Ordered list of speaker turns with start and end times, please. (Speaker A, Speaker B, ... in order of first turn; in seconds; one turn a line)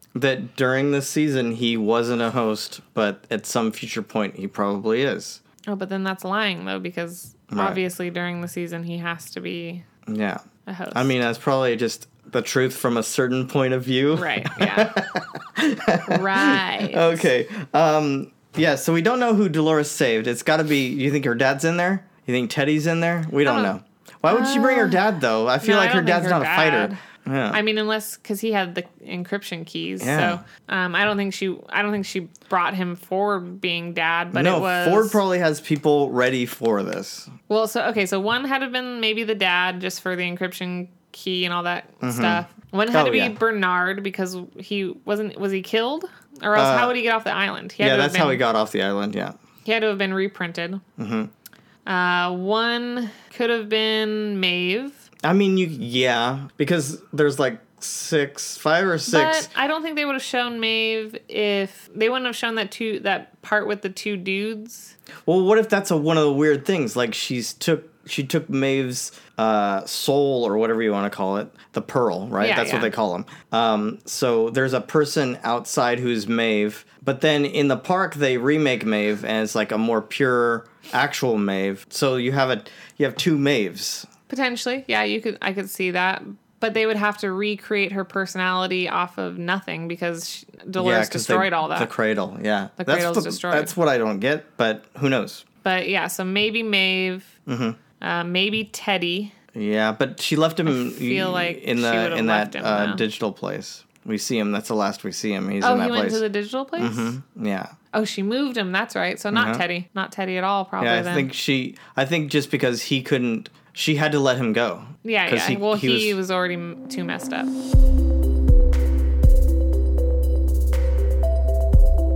Speaker A: 0.1-5.4
Speaker B: 5.7-9.8
Speaker A: 7.5-7.8
Speaker A: 10.1-27.6
Speaker B: 10.7-11.1
Speaker B: 14.1-14.9
Speaker B: 16.1-17.3
Speaker B: 23.4-23.7
Speaker B: 24.3-25.0
Speaker B: 25.6-27.0
Speaker B: 27.5-35.2
Speaker A: 30.0-30.4
Speaker A: 34.3-37.3
Speaker B: 37.5-48.4
Speaker A: 42.0-43.4
Speaker A: 46.5-47.0
Speaker A: 47.8-49.4
Speaker B: 49.6-50.8
Speaker A: 51.0-51.3
Speaker B: 51.9-55.0
Speaker A: 55.2-59.5
Speaker B: 59.1-64.9
Speaker A: 65.2-84.1
Speaker B: 72.4-72.9
Speaker B: 84.3-91.9
Speaker A: 90.8-95.4
Speaker B: 92.8-93.7
Speaker B: 95.6-97.3
Speaker A: 97.5-97.8
Speaker B: 98.0-99.3
Speaker A: 99.5-106.2
Speaker B: 100.7-103.0
Speaker B: 105.6-107.1
Speaker A: 106.8-107.7
Speaker B: 107.9-111.3
Speaker A: 109.3-109.6
Speaker A: 110.8-116.2
Speaker B: 115.0-117.5